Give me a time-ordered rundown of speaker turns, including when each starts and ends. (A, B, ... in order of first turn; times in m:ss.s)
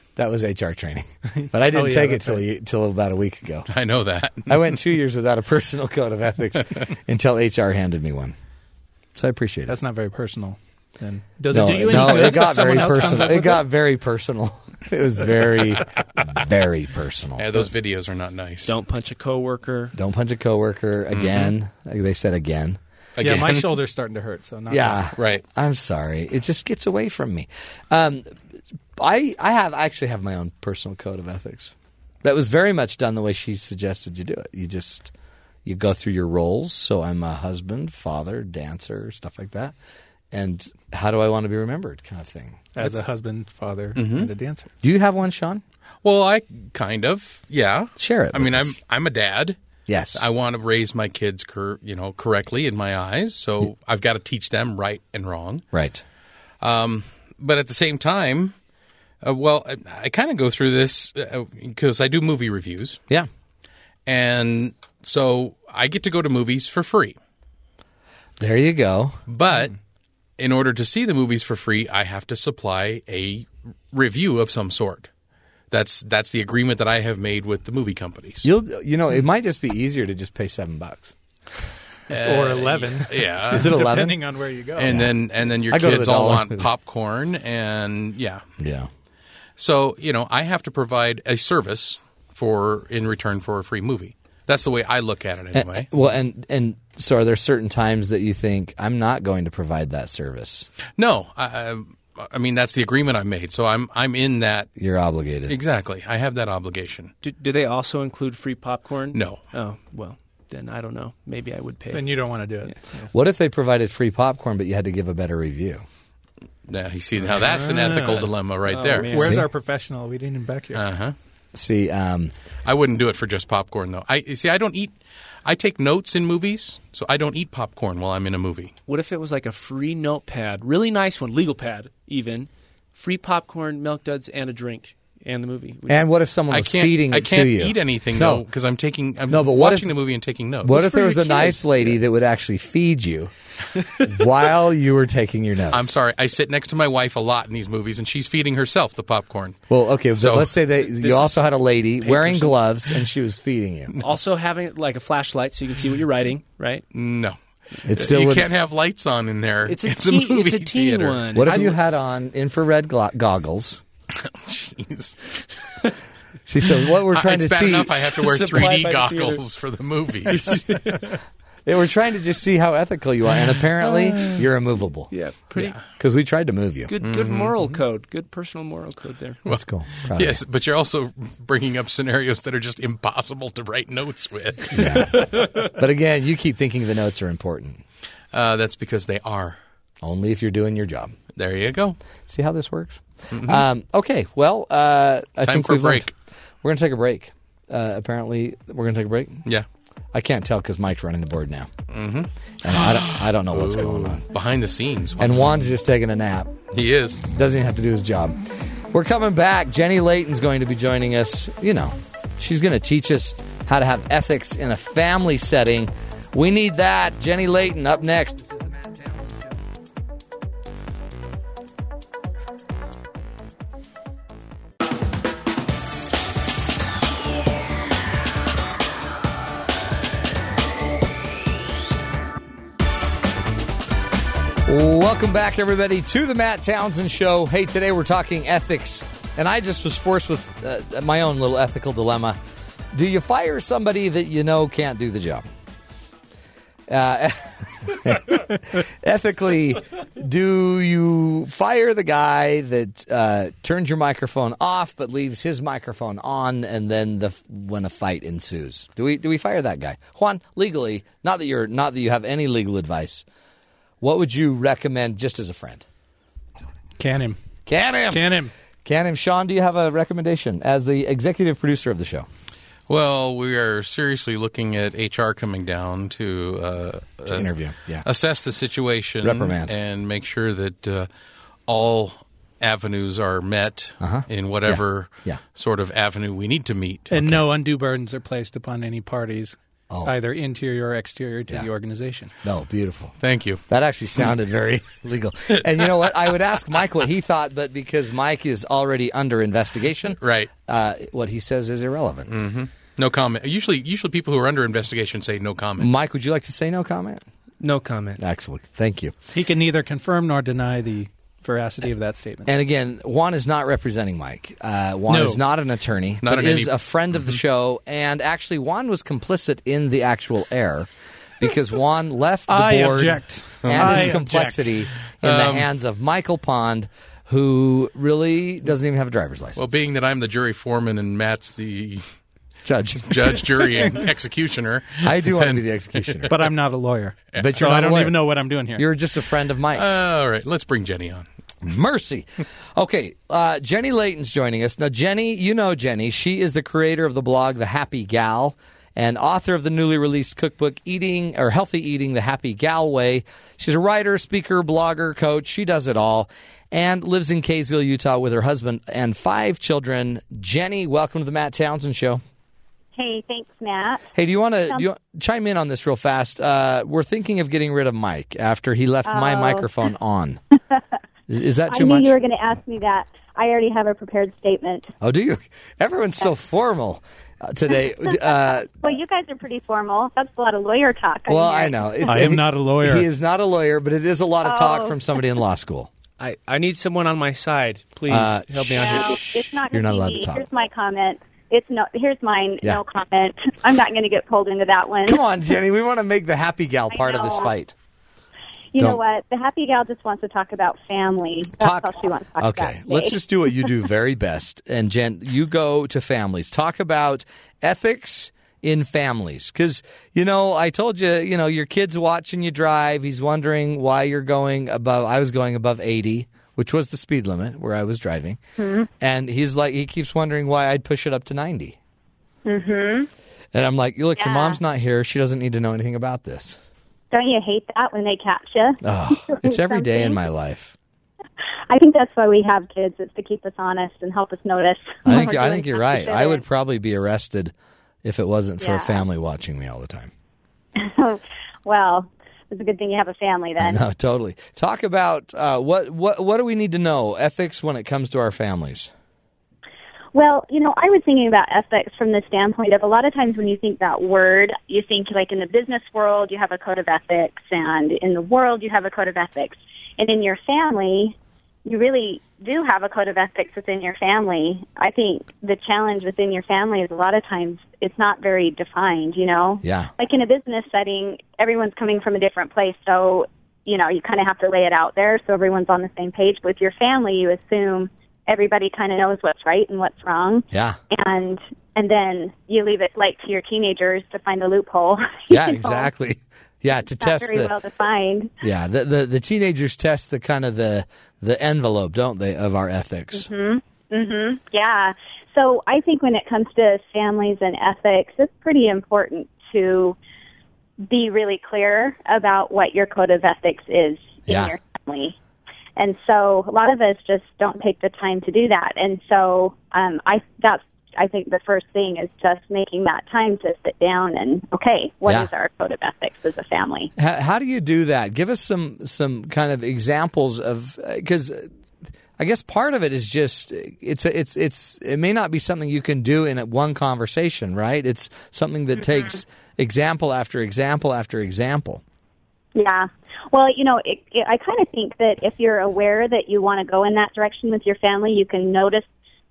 0:00.2-0:03.7 A
0:01.4-0:02.4 B
0:03.7-0:04.7 C
0:04.5-0:08.3 A
0:09.2-0:09.8 A
0:09.7-0:13.6 B
0:11.5-0:17.7 A
0:17.4-0:18.7 C
0:18.6-0:19.9 D
0:19.9-0:22.8 A
0:21.1-0:21.5 C
0:23.2-0:23.8 C
0:23.2-0:25.1 B
0:24.7-0:28.3 A
0:25.1-0:25.4 C
0:29.0-0:35.1 A
0:35.6-0:39.7 A
0:40.3-0:42.8 A
0:42.7-0:44.7 B
0:43.9-0:44.3 C
0:44.8-0:45.6 A
0:46.0-0:49.6 C
0:48.0-0:48.8 A
0:49.9-0:50.2 A
0:50.1-0:55.6 C
0:55.7-0:56.0 A
0:56.6-0:58.5 C
0:59.2-1:03.0 C
1:04.0-1:07.2 C
1:08.4-1:09.2 A
1:09.3-1:09.7 C
1:10.4-1:15.1 C
1:15.7-1:18.5 C
1:18.4-1:21.1 A
1:22.1-1:23.8 C
1:22.1-1:25.0 B
1:23.5-1:24.2 A
1:24.8-1:28.4 C
1:24.8-1:25.1 A
1:25.7-1:26.7 A
1:28.6-1:28.9 A
1:29.6-1:35.9 C
1:35.5-1:40.7 A
1:41.0-1:44.7 C
1:44.8-1:45.6 A
1:45.5-1:47.1 C
1:47.2-1:52.8 D
1:49.1-1:49.4 C
1:51.9-1:53.1 B
1:53.1-1:55.8 A
1:56.7-1:59.3 C
1:57.4-2:00.8 B
1:58.7-1:59.3 D
1:59.2-1:59.5 A
2:00.7-2:01.1 C
2:01.5-2:02.3 A
2:02.6-2:08.7 C
2:08.9-2:16.1 D
2:15.9-2:18.4 A
2:16.5-2:20.8 C
2:19.3-2:19.9 A
2:20.6-2:23.3 A
2:20.7-2:22.0 D
2:24.0-2:26.0 A
2:25.7-2:29.6 C
2:29.7-2:33.9 A
2:30.2-2:30.6 C
2:30.9-2:32.6 D
2:34.0-2:36.8 D
2:36.9-2:41.6 C
2:37.8-2:38.5 A
2:39.7-2:41.8 D
2:41.3-2:43.8 A
2:44.2-2:45.7 C
2:46.4-2:48.2 A
2:47.1-2:50.6 C
2:48.3-2:49.4 D
2:50.3-2:51.1 D
2:51.6-2:55.1 A
2:54.0-2:54.4 D
2:55.1-2:55.8 D
2:55.6-2:56.9 A
2:56.9-2:59.4 D
2:57.0-2:57.6 C
2:59.4-3:05.1 C
2:59.5-3:00.4 A
3:04.7-3:07.8 A
3:05.1-3:05.6 D
3:08.3-3:09.6 C
3:10.0-3:11.2 A
3:11.3-3:12.0 C
3:12.3-3:16.1 A
3:13.3-3:13.6 C
3:15.4-3:16.1 C
3:16.6-3:19.4 A
3:20.1-3:21.7 A
3:21.9-3:25.7 C
3:22.6-3:24.2 A
3:25.2-3:26.6 A
3:26.7-3:27.3 C
3:27.2-3:38.6 A
3:54.6-4:02.4 A
4:02.9-4:05.4 A
4:06.9-4:23.2 A
4:24.0-4:25.8 A
4:27.0-4:27.4 B
4:27.6-4:28.3 A
4:28.1-4:28.5 B
4:28.8-4:32.3 A
4:32.9-4:37.5 C
4:37.2-4:38.0 A
4:38.0-4:41.1 C
4:39.2-4:39.7 A
4:41.6-4:47.1 C
4:44.0-4:45.4 A
4:47.1-4:52.3 B
4:52.4-4:53.1 A
4:53.2-4:53.6 C
4:53.7-5:02.3 A
5:00.2-5:00.5 C
5:02.3-5:05.9 C
5:05.8-5:07.2 A
5:07.6-5:08.2 D
5:08.2-5:09.1 A
5:09.3-5:12.5 B
5:12.4-5:20.9 A
5:15.1-5:15.4 B
5:16.2-5:17.4 C
5:21.4-5:29.6 A
5:22.5-5:24.7 B
5:23.6-5:24.1 C
5:25.2-5:25.7 C
5:29.6-5:32.0 C
5:32.6-5:34.0 A
5:33.1-5:36.3 C
5:35.0-5:36.3 A
5:36.3-5:38.8 B
5:37.4-5:38.2 A
5:38.7-5:40.0 A
5:39.7-5:41.3 C
5:41.6-6:02.2 A
6:03.0-6:04.1 E
6:04.1-6:10.4 A
6:09.0-6:09.7 E
6:11.3-6:12.1 A
6:11.7-6:14.9 E
6:15.0-6:18.7 A
6:18.8-6:22.1 E
6:21.3-6:25.9 A
6:22.0-6:23.0 B
6:24.4-6:25.2 E
6:26.2-6:29.2 D
6:28.1-6:30.4 A
6:28.7-6:35.2 E
6:35.0-6:37.7 A
6:36.9-6:37.5 E
6:38.7-6:43.2 E
6:41.6-6:58.4 A
6:58.6-6:58.9 E
6:59.0-7:01.8 A
7:02.4-7:03.1 E
7:03.5-7:06.6 A
7:04.2-7:04.6 E
7:07.1-7:10.2 E
7:08.8-7:10.7 A
7:11.7-7:16.4 E
7:15.0-7:17.5 A
7:18.0-7:20.1 A
7:18.6-7:19.0 E
7:20.8-7:23.8 E
7:23.6-7:28.9 A
7:30.1-8:05.9 E
7:49.6-7:49.9 A
8:00.5-8:00.8 A
8:05.3-8:07.5 A
8:06.8-8:08.3 E
8:08.4-8:13.3 A
8:13.1-8:20.0 E
8:20.9-8:25.2 E
8:24.3-8:24.5 A
8:25.8-8:36.9 E
8:37.0-8:41.5 A
8:42.2-8:51.8 A
8:48.8-8:49.1 E
8:52.5-8:58.9 E